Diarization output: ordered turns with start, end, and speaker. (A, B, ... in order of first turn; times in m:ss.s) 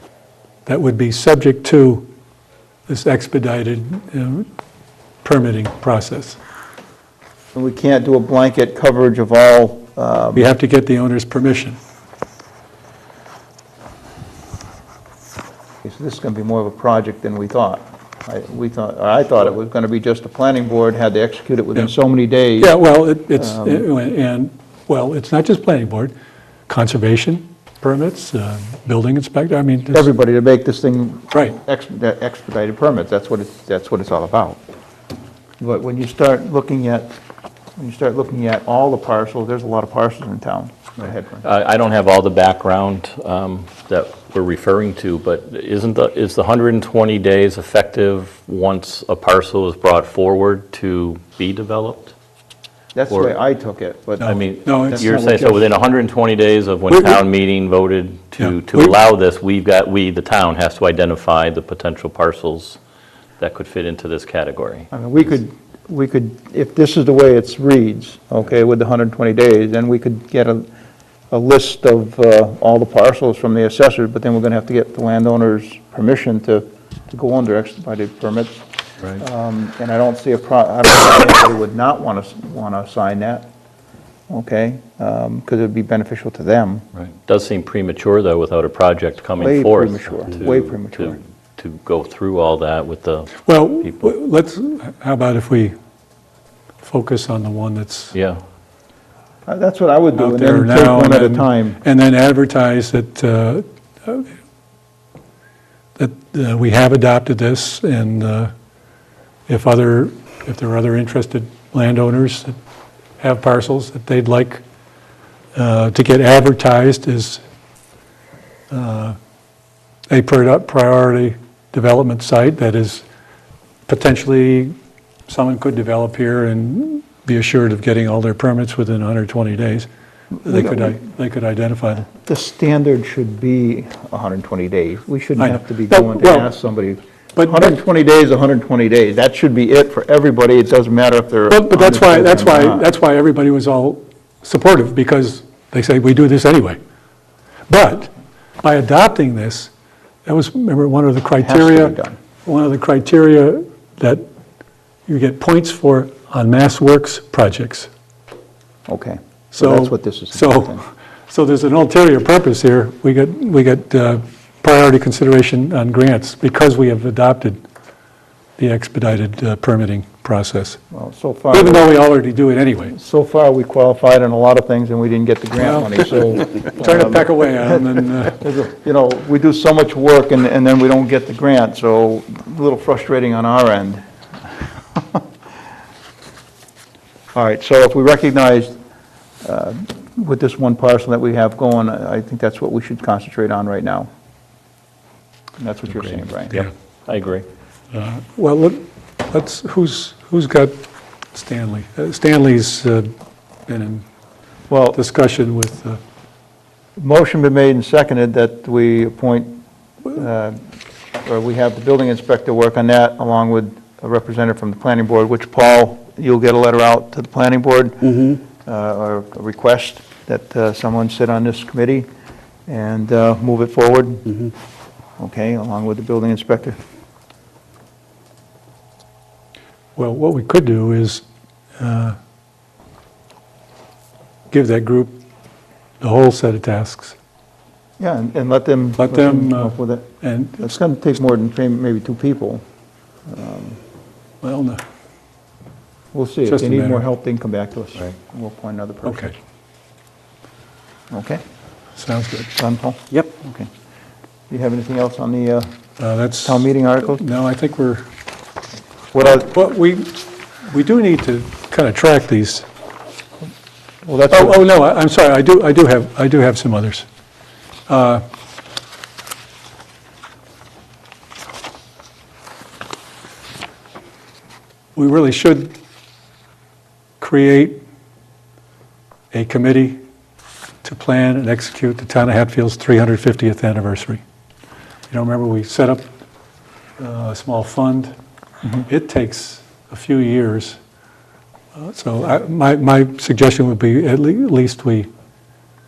0:00.7-0:02.0 A
0:02.9-0:04.5 A
0:05.2-0:06.4 A
0:07.5-0:10.5 B
0:10.3-0:11.8 A
0:15.8-0:22.8 B
0:22.6-0:26.1 A
0:23.4-0:23.8 B
0:26.7-0:30.1 A
0:29.9-0:34.6 B
0:35.6-0:37.1 B
0:37.8-0:41.4 B
0:41.4-0:52.1 C
0:52.9-0:55.7 B
0:53.1-0:53.4 C
0:54.2-0:55.1 A
0:54.2-1:02.8 C
0:56.9-0:57.2 A
0:58.4-0:59.0 A
1:03.4-1:04.9 C
1:04.9-1:10.7 B
1:11.3-1:18.6 B
1:19.1-1:23.5 B
1:24.3-1:26.8 B
1:27.0-1:34.1 C
1:29.4-1:31.2 B
1:33.4-1:35.7 A
1:36.8-1:38.1 A
1:38.1-1:38.4 C
1:39.4-1:41.8 B
1:40.2-1:44.3 A
1:46.0-1:48.5 A
1:49.5-1:52.6 A
1:53.2-1:54.6 A
1:55.6-1:57.4 A
1:58.7-1:59.2 A
2:00.1-2:03.0 A
2:03.9-2:04.7 A
2:05.3-2:09.9 A
2:10.4-2:12.1 A
2:10.5-2:11.0 B
2:12.1-2:22.9 B
2:15.4-2:16.5 A
2:17.4-2:17.8 A
2:21.5-2:26.8 A
2:27.7-2:29.7 A
2:30.2-2:31.9 A
2:31.4-2:32.2 B
2:32.4-2:34.2 A
2:35.1-2:37.9 A
2:38.9-2:40.8 B
2:39.5-2:47.6 A
2:48.6-2:50.8 A
2:50.9-2:51.9 B
2:51.5-2:52.9 A
2:52.9-3:04.0 B
2:55.6-2:58.4 A
3:04.9-3:05.2 B
3:07.3-3:08.8 B
3:09.4-3:14.1 B
3:15.6-3:16.7 B
3:16.5-3:17.5 C
3:17.9-3:23.1 A
3:23.7-3:24.0 A
3:24.7-3:25.0 B
3:24.9-3:26.0 A
3:27.0-3:29.6 B
3:30.1-3:30.6 B
3:31.2-3:42.1 B
3:42.7-3:44.5 B
3:45.2-3:46.8 B
3:50.0-3:51.2 A
3:51.8-3:52.2 A
3:54.5-3:55.2 A
3:56.0-3:57.2 A
3:58.0-4:00.1 B
3:59.0-4:00.7 A
4:00.6-4:02.6 B
4:03.3-4:03.8 B
4:04.4-4:04.8 A
4:06.1-4:09.3 B
4:06.5-4:07.0 A
4:09.0-4:09.3 A
4:11.1-4:11.4 B
4:12.0-4:12.5 A
4:12.6-4:13.7 B
4:14.5-4:15.7 B
4:16.0-4:18.1 A
4:16.4-4:17.2 B
4:19.1-4:19.5 B
4:19.5-4:20.1 A
4:20.6-4:22.7 A
4:24.0-4:24.6 B
4:24.3-4:27.1 A
4:27.9-4:28.2 A
4:35.0-4:35.7 A
4:37.2-4:37.8 A
4:39.3-4:40.0 A
4:40.8-4:44.2 A
4:45.1-4:46.1 A
4:47.0-4:48.1 A
4:48.7-4:50.8 A
4:51.8-4:55.1 A